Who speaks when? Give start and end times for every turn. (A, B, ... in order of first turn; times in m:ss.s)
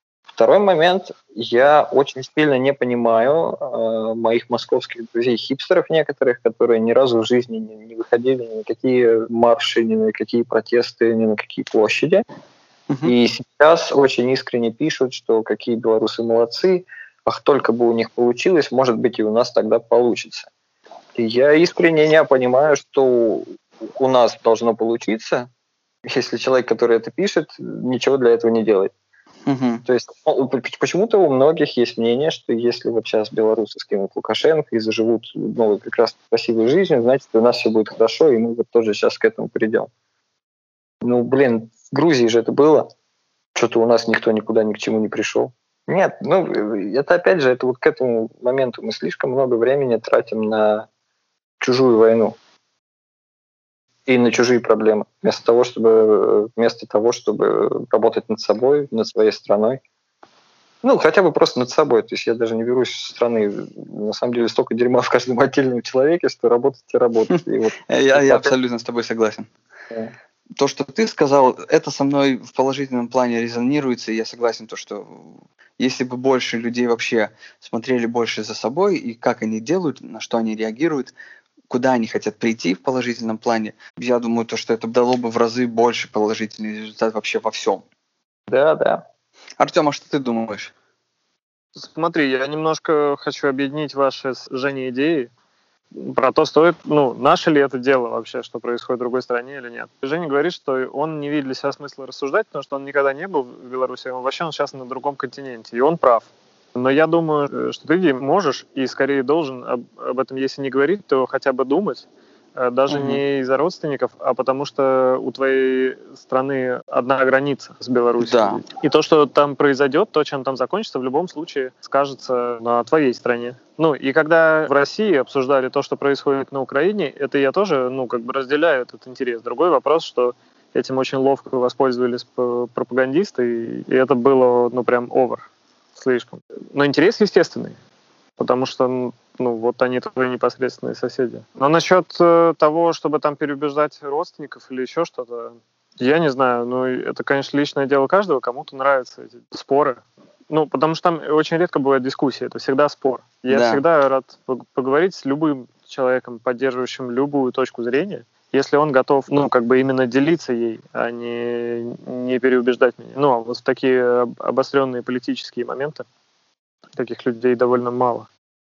0:00.4-0:12.2 A
0:13.0-0:20.5 A
0:21.2-0:25.5 A
0:26.1-0:28.9 A
0:29.5-0:29.8 B
0:29.9-0:39.9 A
0:41.0-0:42.9 A
0:43.6-0:50.9 A
0:51.6-0:52.4 A
0:54.1-0:59.8 A
1:00.8-1:08.5 A
1:07.3-1:09.5 B
1:10.6-1:21.1 B
1:21.7-1:27.8 B
1:28.5-1:29.0 A
1:29.6-1:30.7 B
1:31.8-1:35.3 C
1:35.9-2:17.8 C
1:52.9-1:53.2 B
1:58.2-1:58.6 B
2:18.4-2:46.0 C
2:33.5-2:33.8 B
2:47.0-2:48.3 C